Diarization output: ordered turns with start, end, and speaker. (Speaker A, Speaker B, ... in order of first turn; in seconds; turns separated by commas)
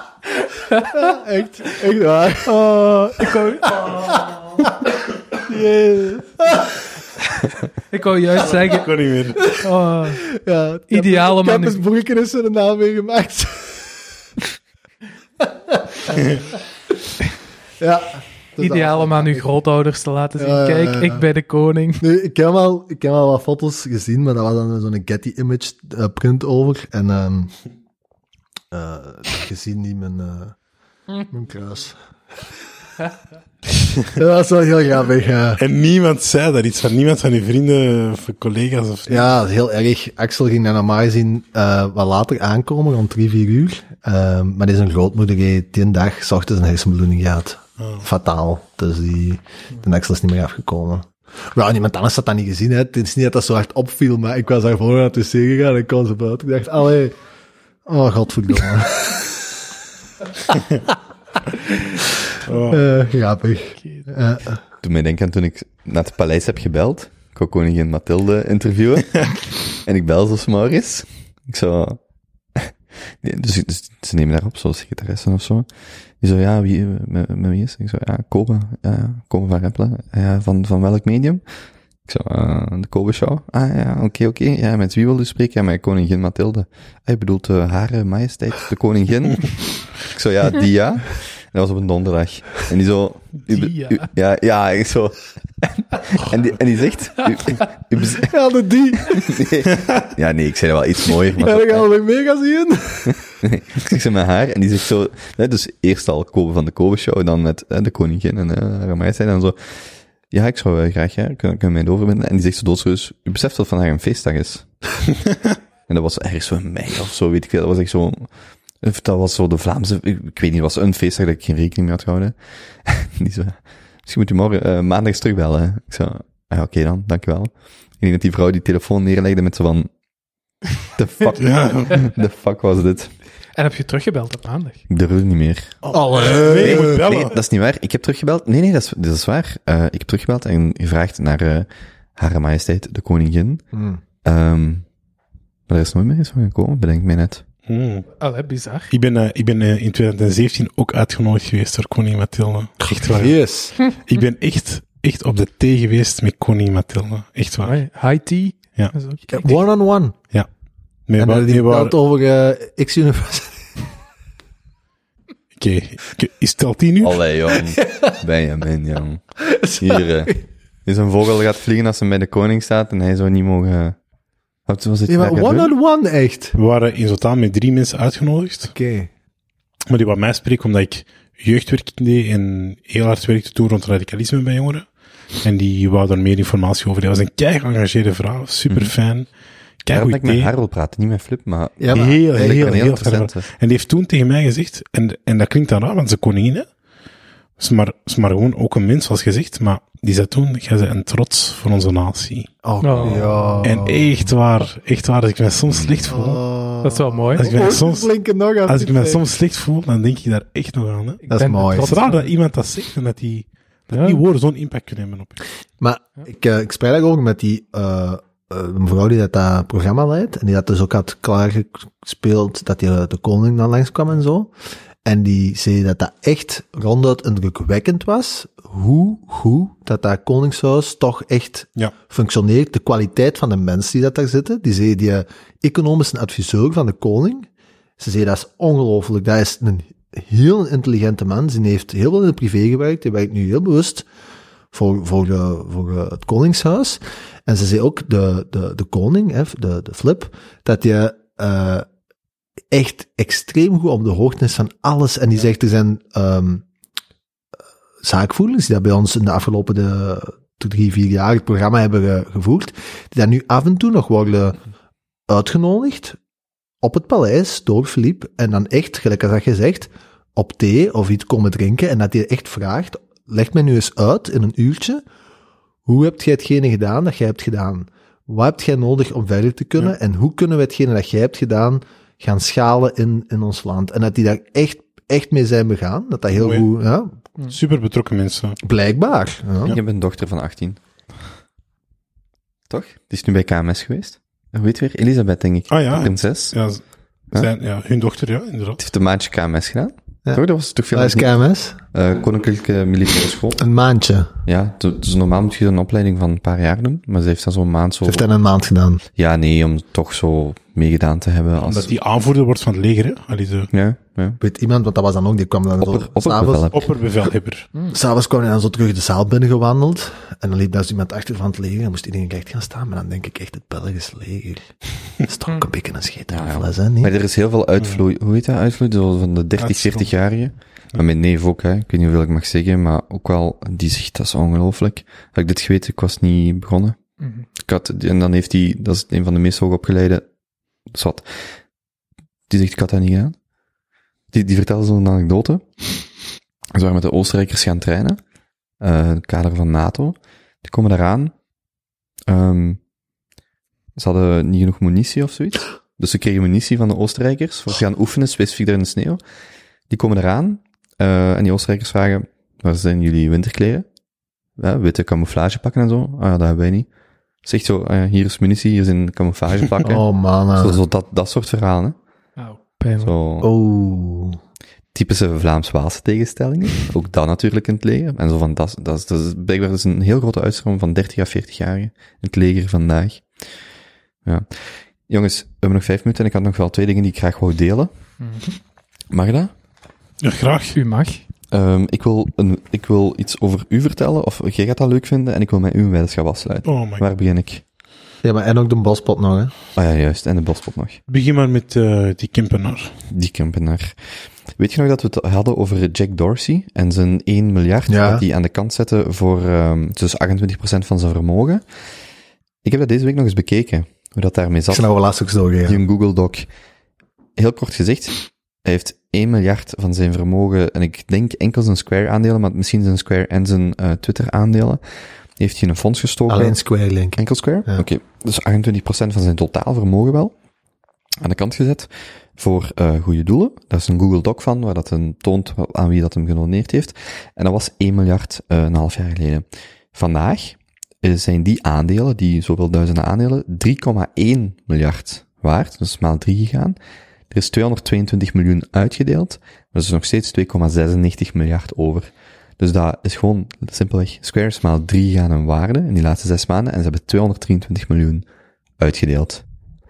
Speaker A: 0.8-4.8, Speaker B: 2.9-4.2, Speaker A: 5.3-6.8, Speaker B: 7.9-8.9, Speaker C: 8.4-9.4, Speaker B: 9.5-10.2, Speaker A: 10.3-13.9, Speaker B: 10.9-11.8, Speaker A: 15.4-16.2, Speaker A: 17.8-19.5, Speaker B: 18.6-22.0, Speaker A: 20.4-21.2, Speaker A: 22.0-27.6, Speaker A: 28.7-30.5, Speaker A: 31.2-32.0, Speaker A: 34.1-35.6, Speaker C: 35.6-39.3, Speaker A: 39.1-57.1, Speaker C: 47.8-48.0, Speaker A: 57.9-59.4, Speaker A: 61.6-62.0, Speaker C: 62.5-62.8, Speaker A: 62.7-64.6, Speaker B: 63.8-64.1, Speaker D: 64.8-72.0, Speaker D: 72.5-75.7, Speaker D: 76.2-81.4, Speaker D: 82.0-98.3, Speaker B: 93.5-94.0, Speaker A: 98.2-99.5, Speaker D: 99.1-101.9, Speaker A: 101.3-103.2, Speaker D: 103.4-109.5, Speaker D: 110.3-114.7, Speaker D: 115.9-118.3, Speaker D: 118.8-129.9, Speaker D: 130.9-133.1, Speaker C: 131.4-132.0, Speaker B: 133.6-134.8, Speaker D: 134.9-135.8, Speaker C: 135.8-137.3, Speaker A: 135.9-137.1, Speaker D: 136.5-143.6, Speaker A: 143.7-144.0, Speaker D: 144.2-144.8, Speaker D: 145.7-147.4, Speaker C: 147.7-148.1, Speaker B: 148.2-148.9, Speaker C: 148.9-157.8, Speaker A: 152.9-153.7, Speaker B: 157.6-159.6, Speaker A: 159.3-160.1, Speaker C: 161.1-161.9, Speaker A: 161.2-163.6, Speaker C: 165.6-167.2, Speaker D: 167.0-169.2, Speaker A: 169.5-170.4, Speaker D: 169.8-173.9, Speaker D: 174.7-175.7, Speaker A: 175.1-176.5, Speaker C: 176.5-178.7, Speaker A: 178.7-179.1, Speaker C: 179.9-184.9, Speaker C: 185.4-189.3, Speaker D: 188.7-188.9, Speaker C: 189.8-190.5, Speaker D: 189.9-193.5, Speaker A: 191.8-192.8, Speaker C: 191.9-196.7, Speaker C: 197.6-202.5, Speaker A: 202.6-204.1, Speaker B: 202.8-203.7, Speaker C: 203.0-206.4, Speaker D: 205.7-206.1, Speaker A: 206.1-209.2, Speaker B: 206.8-207.5, Speaker C: 207.4-208.1, Speaker C: 208.7-211.2, Speaker B: 211.3-212.3, Speaker A: 211.3-211.9, Speaker C: 211.8-215.4, Speaker B: 213.9-214.2, Speaker A: 215.8-224.5, Speaker A: 225.0-237.5, Speaker A: 238.0-244.1, Speaker A: 244.7-251.8, Speaker A: 252.7-256.6, Speaker A: 258.0-264.6, Speaker A: 265.3-266.2, Speaker A: 266.8-275.0, Speaker A: 275.9-287.1, Speaker C: 286.3-286.6, Speaker C: 287.5-288.6, Speaker A: 288.6-289.8, Speaker D: 289.7-290.8, Speaker D: 292.7-296.5, Speaker C: 295.7-296.8, Speaker C: 297.3-298.8, Speaker D: 298.8-301.3, Speaker A: 300.3-301.8, Speaker D: 301.9-303.6, Speaker A: 303.6-304.3, Speaker D: 304.4-308.2, Speaker A: 308.0-309.0, Speaker D: 309.1-311.9, Speaker C: 311.6-313.7, Speaker D: 313.7-314.4, Speaker A: 314.4-316.7, Speaker D: 315.8-316.9, Speaker C: 316.7-317.7, Speaker A: 317.9-324.6, Speaker A: 325.2-327.1, Speaker D: 326.3-337.0, Speaker C: 329.6-330.1, Speaker B: 337.2-337.4, Speaker D: 337.6-340.3, Speaker D: 340.9-341.3, Speaker D: 342.5-343.3, Speaker D: 344.3-345.6, Speaker D: 346.7-348.2, Speaker D: 348.8-351.3, Speaker D: 352.3-352.8, Speaker D: 353.9-359.2, Speaker D: 359.9-363.9, Speaker D: 364.6-366.9, Speaker D: 367.4-372.0, Speaker A: 369.9-370.8, Speaker B: 372.4-373.1, Speaker D: 373.0-373.5, Speaker A: 373.4-374.4, Speaker D: 374.9-383.2, Speaker D: 384.2-387.9, Speaker B: 388.2-388.6, Speaker D: 389.1-389.5, Speaker C: 390.2-390.8, Speaker B: 390.7-391.2, Speaker D: 391.5-397.6, Speaker C: 396.6-397.0, Speaker A: 398.2-399.5, Speaker D: 399.8-401.0, Speaker C: 401.1-402.9, Speaker D: 403.1-403.9, Speaker D: 404.6-411.6, Speaker A: 407.9-408.2, Speaker D: 412.6-414.9, Speaker A: 414.7-415.8, Speaker D: 415.6-416.5, Speaker D: 417.4-424.8, Speaker D: 425.4-426.6, Speaker A: 426.3-427.8, Speaker D: 427.1-430.3, Speaker D: 431.2-446.8, Speaker D: 447.3-458.2, Speaker D: 458.8-459.4